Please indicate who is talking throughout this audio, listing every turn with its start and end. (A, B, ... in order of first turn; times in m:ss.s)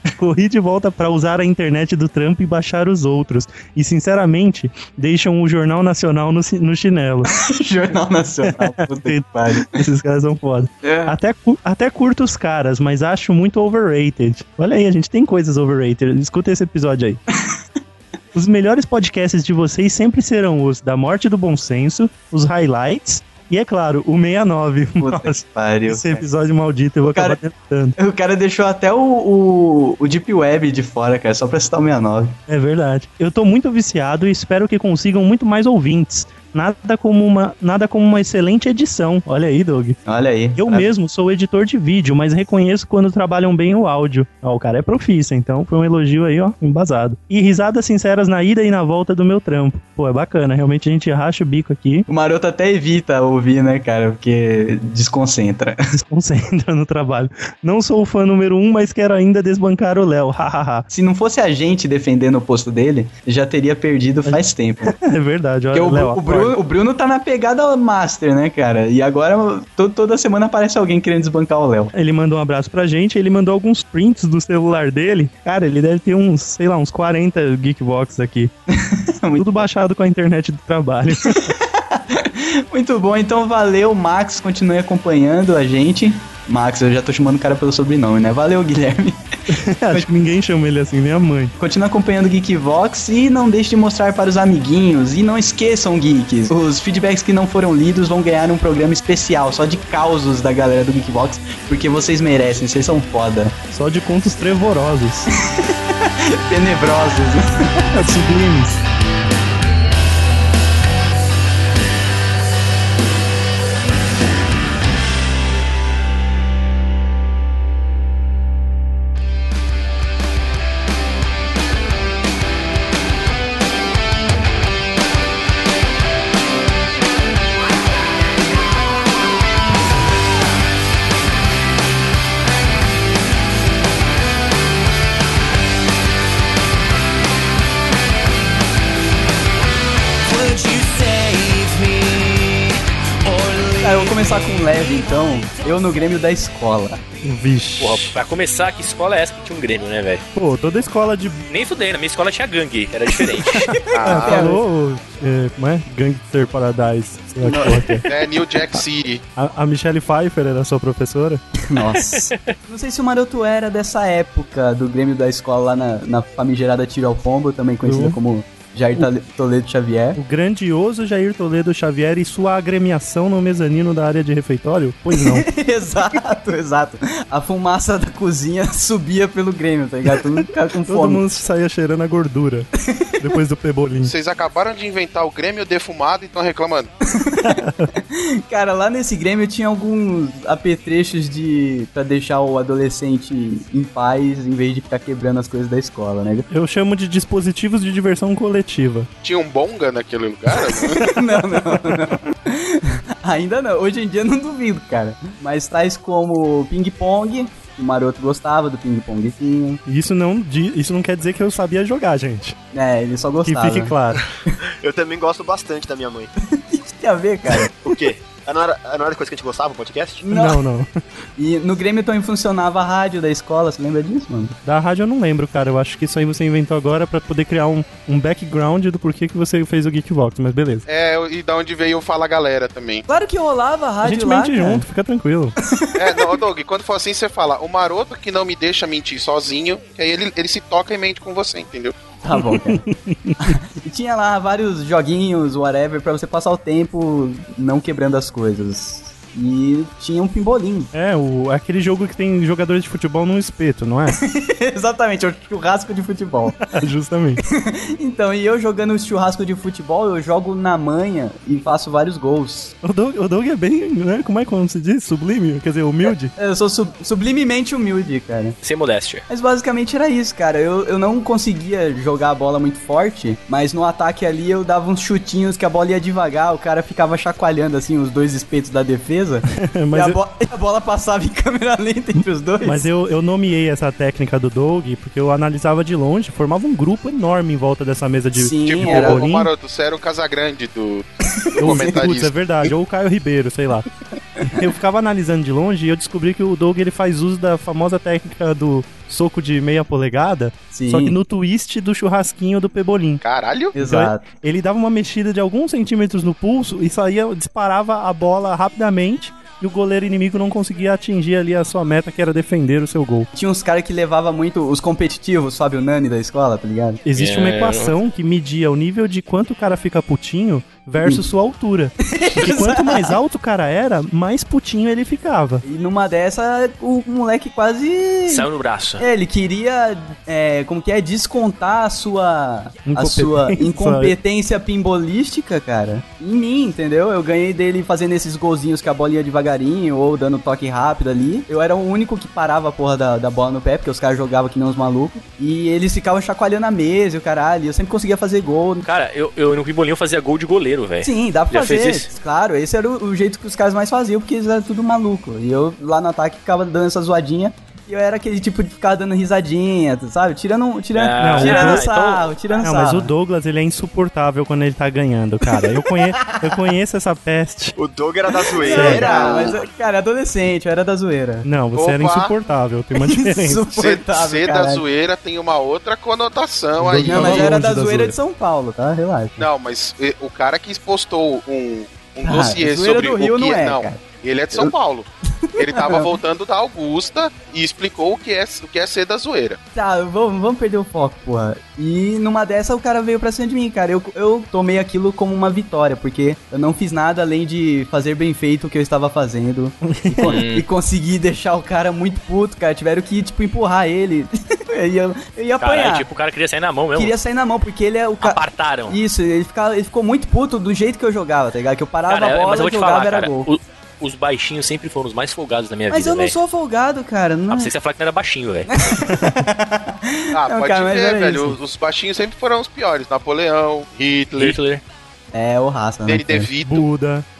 0:00.2-0:07.4 A
0:07.3-0:09.8 B
0:08.4-0:17.2 A
0:10.8-0:11.2 B
0:18.3-0:27.9 A
0:25.0-0:26.2 B
0:27.0-0:27.4 B
0:28.0-0:32.4 B
0:32.5-0:40.0 A
0:40.0-0:40.9 B
0:40.6-0:52.1 A
0:52.1-0:55.8 B
0:55.9-1:00.8 A
1:00.9-1:05.0 B
1:04.2-1:06.6 A
1:05.7-1:11.9 B
1:11.9-1:18.5 A
1:18.7-1:19.7 B
1:19.4-1:21.6 A
1:21.2-1:29.2 B
1:29.5-1:31.5 A
1:31.6-1:43.5 B
1:43.7-1:45.3 A
1:45.4-1:48.0 B
1:47.9-1:48.8 A
2:20.2-2:26.0 C
2:23.8-2:27.0 B
2:27.2-2:28.1 A
2:27.8-2:30.2 D
2:30.3-2:31.4 A
2:31.5-2:33.8 D
2:33.6-2:34.6 B
2:33.8-2:38.1 A
2:33.9-2:34.4 E
2:37.4-2:38.1 B
2:38.0-2:39.2 E
2:39.4-2:41.4 A
2:41.6-2:50.2 B
2:42.0-2:42.5 D
2:47.8-2:48.2 A
2:50.2-2:55.5 A
2:55.2-3:01.2 B
3:00.8-3:04.1 A
3:02.8-3:03.1 B
3:04.0-3:06.9 E
3:07.0-3:16.5 B
3:07.4-3:07.9 A
3:16.5-3:19.1 A
3:19.2-3:21.1 E
3:20.8-3:29.8 B
3:21.3-3:22.2 A
3:29.8-3:32.6 A
3:32.7-3:33.9 B
3:33.4-3:34.2 A
3:34.6-3:36.3 F
3:36.5-3:37.7 B
3:37.6-3:40.2 F
3:40.2-3:40.6 B
3:40.3-3:40.9 A
3:41.4-3:44.5 B
3:44.6-3:50.8 A
3:50.8-3:53.0 E
3:53.1-3:54.8 B
3:54.0-3:55.5 A
3:55.6-3:56.3 B
3:56.0-4:01.9 E
4:02.2-4:02.8 B
4:02.3-4:03.4 A
4:03.4-4:10.9 B
4:10.9-4:14.2 A
4:14.2-4:16.6 B
4:16.6-4:17.4 A
4:17.4-4:22.7 B
4:22.8-4:26.3 A
4:26.4-4:28.6 B
4:28.6-4:29.2 D
4:29.3-4:42.9 B
4:39.6-4:40.2 A
4:42.6-4:49.5 A
4:48.3-4:49.2 B
4:48.6-4:52.4 E
4:51.3-4:52.0 B
4:51.6-4:53.9 A
4:54.4-5:03.2 A
5:00.7-5:01.2 B
5:03.2-5:03.7 E
5:03.7-5:04.2 B
5:03.8-5:13.3 A
5:13.3-5:17.0 B
5:17.0-5:25.6 A
5:17.2-5:17.9 D
5:22.0-5:23.2 B
5:25.6-5:28.5 B
5:28.3-5:29.0 D
5:29.0-5:48.8 B
5:32.8-5:34.2 A
5:48.8-5:52.1 D
5:51.0-6:03.1 B
6:00.9-6:02.6 D
6:01.2-6:01.9 A
6:02.6-6:07.8 A
6:05.5-6:06.6 B
6:07.8-6:09.6 F
6:08.3-6:11.5 B
6:08.6-6:09.1 A
6:09.0-6:09.5 E
6:11.4-6:13.7 A
6:11.7-6:12.3 E
6:13.0-6:14.8 B
6:13.7-6:17.6 E
6:16.8-6:18.2 A
6:16.9-6:19.5 B
6:19.4-6:29.6 E
6:22.2-6:24.0 B
6:25.4-6:26.1 B
6:29.7-6:46.0 B
6:39.8-6:40.4 A
6:40.2-6:40.6 D
6:45.6-6:47.1 D
6:46.9-6:53.5 B
6:48.2-6:49.0 D
6:52.1-6:56.3 D
6:55.9-6:57.7 B
6:57.5-6:59.0 D
6:58.7-7:01.6 B
6:59.0-6:59.5 A
7:00.3-7:04.6 E
7:04.4-7:04.8 D
7:05.3-7:06.5 B
7:06.1-7:06.9 E
7:06.6-7:07.2 A